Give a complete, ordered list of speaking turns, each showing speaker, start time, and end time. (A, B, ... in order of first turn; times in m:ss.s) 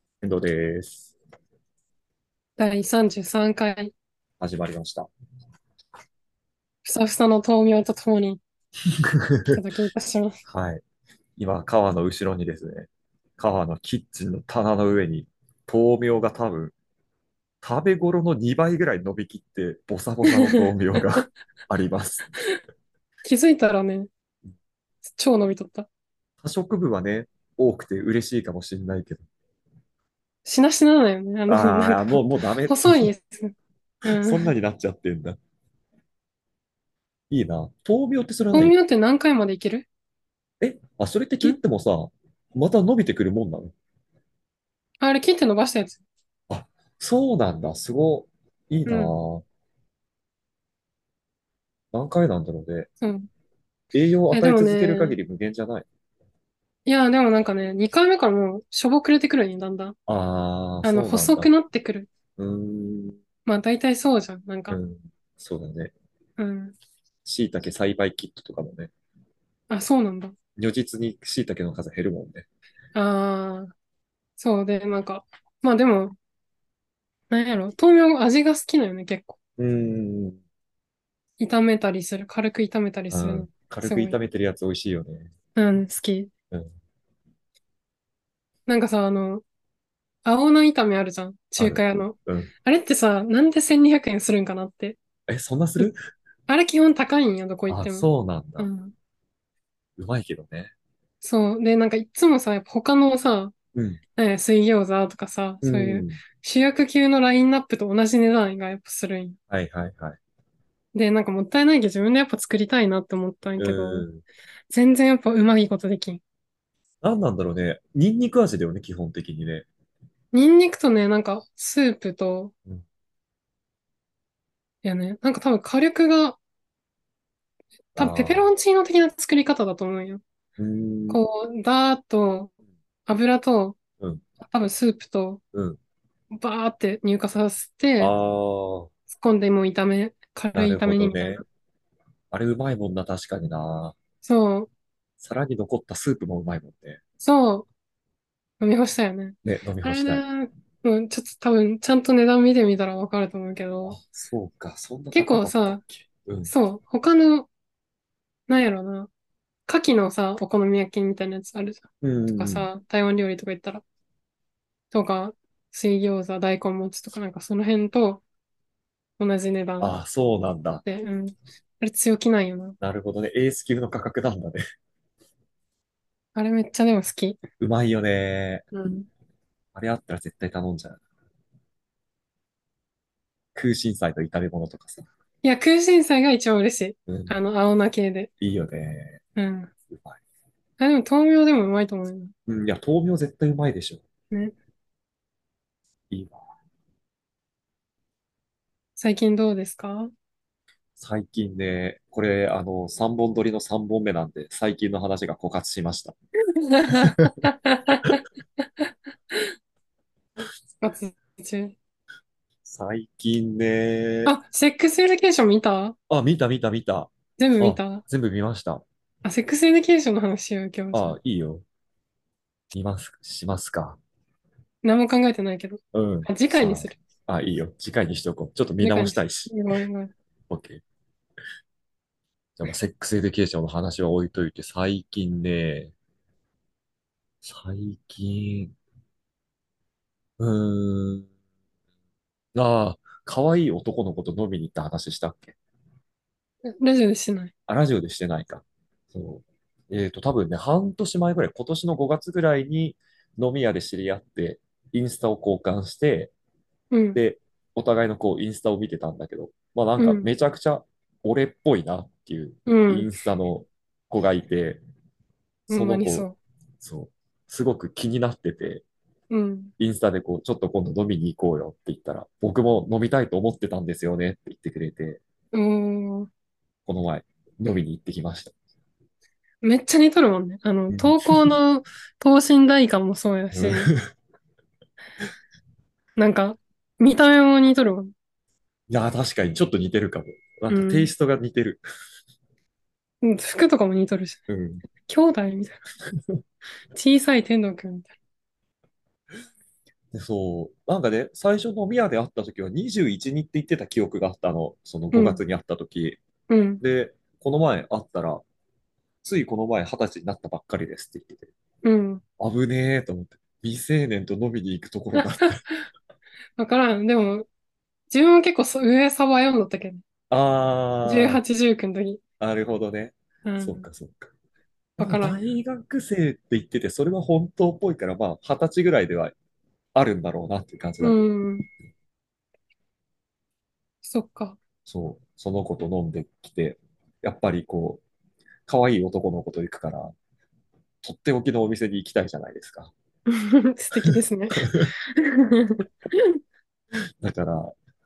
0:00.2-0:01.1 A
0:02.6-0:03.9 B
0:04.4-0:05.1 A
0:06.8-0:08.4 B
0:09.1-0:09.6 A
0:09.5-0:10.4 B
0:10.5-0:10.8 A
0:11.4-0:16.7 A
0:17.6-0:22.3 A
0:20.2-0:21.2 B
0:23.2-0:24.1 B
0:25.1-0:25.9 B
0:26.4-0:29.2 A
0:30.4-0:33.5 B
0:31.5-0:33.1 A
0:34.0-0:34.5 B
0:34.0-0:35.4 A
0:37.3-0:38.7 A
0:38.5-0:39.9 B
0:40.6-0:43.7 A
0:45.0-0:46.0 B
0:46.5-0:49.4 A
0:48.8-0:49.1 B
0:51.9-0:52.9 A
0:53.0-0:53.3 B
0:53.9-0:55.9 A
0:54.3-0:55.2 B
0:56.8-1:00.0 B
1:00.1-1:01.5 A
1:00.8-1:02.1 B
1:02.4-1:03.2 A
1:03.4-1:04.8 B
1:04.7-1:05.9 A
1:06.4-1:06.7 B
1:07.2-1:08.9 A
1:09.7-1:10.3 B
1:10.6-1:12.5 A
1:12.9-1:13.7 B
1:14.4-1:16.1 B
1:17.3-1:19.4 B
1:19.6-1:20.4 A
1:21.4-1:24.2 B
1:23.1-1:25.3 A
1:25.6-1:26.3 B
1:28.7-1:29.4 B
1:30.2-1:35.0 B
1:31.6-1:32.5 A
1:35.3-1:36.0 A
1:36.5-1:38.1 B
1:37.7-1:38.7 A
1:38.6-1:38.9 B
1:40.0-1:40.7 A
1:41.2-1:43.5 B
1:43.7-1:44.0 A
1:44.2-1:49.4 B
1:45.6-1:46.2 A
1:49.5-1:50.2 A
1:50.9-1:54.1 B
1:53.6-1:54.2 A
1:54.7-1:56.2 B
1:57.0-1:59.7 A
2:00.3-2:02.5 B
2:04.8-2:06.4 B
2:07.9-2:10.2 B
2:08.0-2:08.5 A
2:10.6-2:11.2 A
2:11.1-2:12.5 B
2:13.0-2:13.8 B
2:14.4-2:15.4 B
2:15.5-2:15.8 A
2:16.3-2:18.1 B
2:18.0-2:18.9 A
2:19.1-2:21.4 B
2:20.5-2:21.4 A
2:22.3-2:24.0 A
2:24.2-2:24.7 B
2:25.2-2:27.0 A
2:27.2-2:27.7 B
2:28.6-2:34.0 B
2:29.4-2:30.2 A
2:33.9-2:36.5 A
2:35.1-2:35.8 B
2:36.5-2:37.5 B
2:38.5-2:39.1 B
2:39.7-2:41.8 B
2:42.0-2:42.7 A
2:42.3-2:43.8 B
2:44.9-2:48.2 B
2:49.2-2:50.0 B
2:49.8-2:50.8 A
2:50.8-2:52.8 B
2:52.8-2:54.6 A
2:56.3-2:57.4 B
2:57.6-2:58.6 A
2:58.7-2:59.1 B
2:59.7-3:01.0 A
3:03.5-3:05.0 A
3:05.4-3:08.3 B
3:07.1-3:07.4 A
3:08.4-3:09.2 A
3:09.4-3:09.7 B
3:09.9-3:10.2 A
3:10.8-3:12.3 B
3:12.5-3:14.0 A
3:16.1-3:16.4 A
3:19.0-3:20.1 B
3:21.0-3:26.2 A
3:26.6-3:29.5 B
3:30.8-3:31.8 B
3:32.6-3:34.3 A
3:34.2-3:36.0 B
3:36.1-3:38.8 A
3:37.4-3:38.0 B
3:39.2-3:41.2 B
3:40.9-3:41.6 A
3:42.7-3:44.0 A
3:44.8-3:47.0 B
3:45.9-3:49.6 A
3:48.8-3:50.1 B
3:50.5-3:50.8 A
3:52.6-3:55.9 A
3:57.4-3:58.7 A
4:00.4-4:01.3 A
4:02.5-4:05.6 A
4:06.6-4:07.5 B
4:07.7-4:16.3 A
4:16.9-4:17.2 B
4:17.1-4:24.8 A
4:20.0-4:20.3 B
4:22.7-4:23.1 B
4:25.7-4:26.3 A
4:25.7-4:26.4 B
4:26.8-4:28.8 A
4:29.3-4:29.7 B
4:29.8-4:35.2 A
4:35.5-4:36.3 B
4:36.9-4:38.5 A
4:39.6-4:43.9 B
4:40.9-4:41.5 A
4:43.5-4:44.1 A
4:46.2-4:48.1 B
4:48.9-4:51.8 A
4:50.7-4:51.1 B
4:53.2-4:54.4 B
4:54.5-4:54.8 A
4:55.0-4:55.8 B
4:56.9-4:58.1 B
5:00.1-5:06.2 A
5:05.1-5:05.4 B
5:06.5-5:06.8 B
5:06.8-5:08.4 A
5:09.2-5:11.5 A
5:11.8-5:12.2 B
5:12.4-5:15.6 A
5:15.2-5:15.5 B
5:16.6-5:17.5 B
5:18.1-5:20.0 B
5:20.3-5:21.4 A
5:21.0-5:22.2 B
5:22.4-5:24.3 A
5:23.4-5:23.9 B
5:25.0-5:29.3 A
5:25.0-5:25.4 B
5:29.9-5:31.2 A
5:31.0-5:31.6 B
5:34.0-5:34.6 B
5:34.9-5:38.0 A
5:38.7-5:40.1 A
5:41.0-5:42.9 A
5:43.3-5:46.3 B
5:43.9-5:44.9 A
5:47.2-5:47.7 A